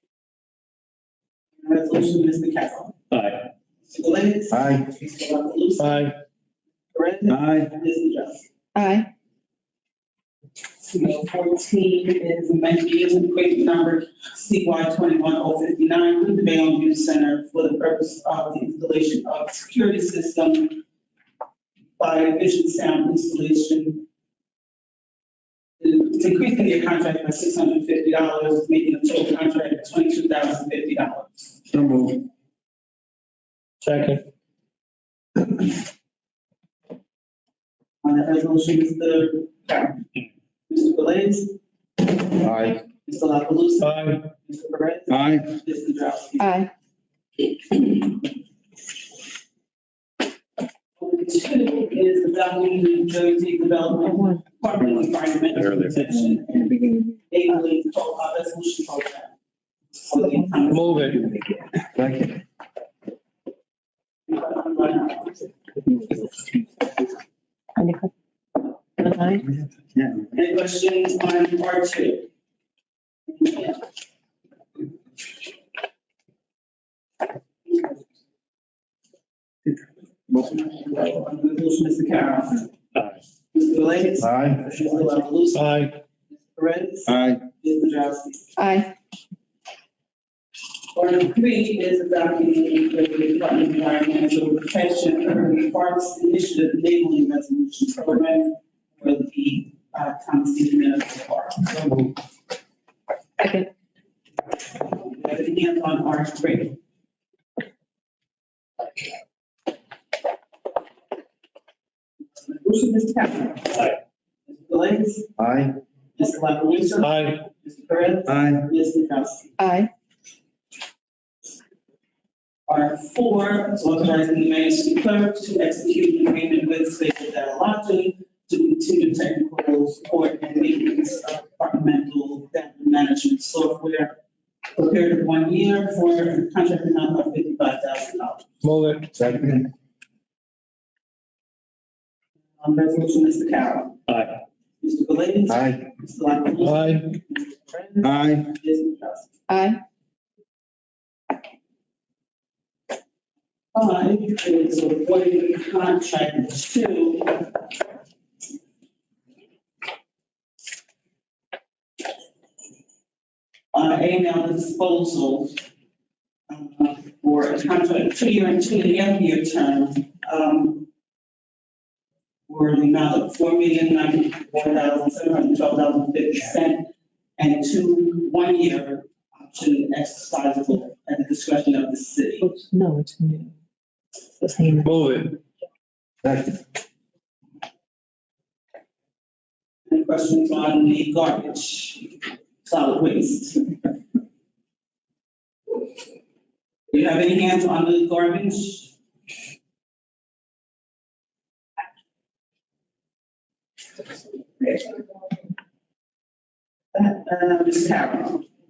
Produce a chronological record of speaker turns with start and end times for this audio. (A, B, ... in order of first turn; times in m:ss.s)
0:01.6-0:03.0 A
0:03.1-0:03.5 B
0:03.9-0:06.1 A
0:04.5-0:04.9 B
0:05.8-0:06.2 C
0:07.0-0:08.5 A
0:07.3-0:07.7 B
0:08.8-0:09.1 D
0:10.8-0:20.8 A
0:22.0-0:24.0 A
0:25.8-0:31.5 A
0:31.7-0:32.3 B
0:33.8-0:34.2 C
0:38.0-0:40.0 A
0:40.7-0:41.6 A
0:42.4-0:42.8 B
0:43.1-0:46.5 A
0:43.8-0:44.3 C
0:45.1-0:45.5 B
0:46.4-0:46.7 D
0:51.0-0:56.8 A
0:54.1-0:54.4 D
0:55.6-0:55.8 B
0:57.3-0:59.3 A
1:00.0-1:01.3 A
1:00.7-1:01.2 C
1:02.0-1:02.4 B
1:04.3-1:05.5 A
1:07.8-1:08.1 D
1:09.0-1:09.5 D
1:10.0-1:10.2 B
1:10.3-1:12.3 A
1:13.3-1:13.8 A
1:20.3-1:22.7 A
1:23.5-1:25.7 A
1:24.2-1:24.6 B
1:25.6-1:26.0 C
1:26.5-1:28.5 A
1:27.1-1:27.4 B
1:28.6-1:28.9 D
1:30.9-1:42.2 A
1:43.4-1:43.7 D
1:44.7-1:46.8 A
1:52.4-1:55.3 A
1:55.4-1:55.8 B
1:56.2-1:59.5 A
1:57.0-1:57.4 C
1:58.3-1:58.7 B
1:59.6-1:59.9 D
2:02.7-2:14.2 A
2:14.8-2:18.5 A
2:18.6-2:19.2 C
2:19.2-2:19.7 B
2:22.6-2:24.0 A
2:24.8-2:29.3 A
2:25.5-2:25.8 B
2:26.6-2:27.1 C
2:28.0-2:28.5 B
2:29.5-2:29.8 D
2:33.8-2:37.5 A
2:43.7-2:45.6 A
2:46.5-2:50.9 A
2:52.5-3:02.5 A
3:02.4-3:03.5 D
3:04.4-3:04.9 D
3:04.8-3:05.4 C
3:06.2-3:06.6 B
3:09.9-3:13.7 A
3:16.9-3:18.9 A
3:26.9-3:28.4 A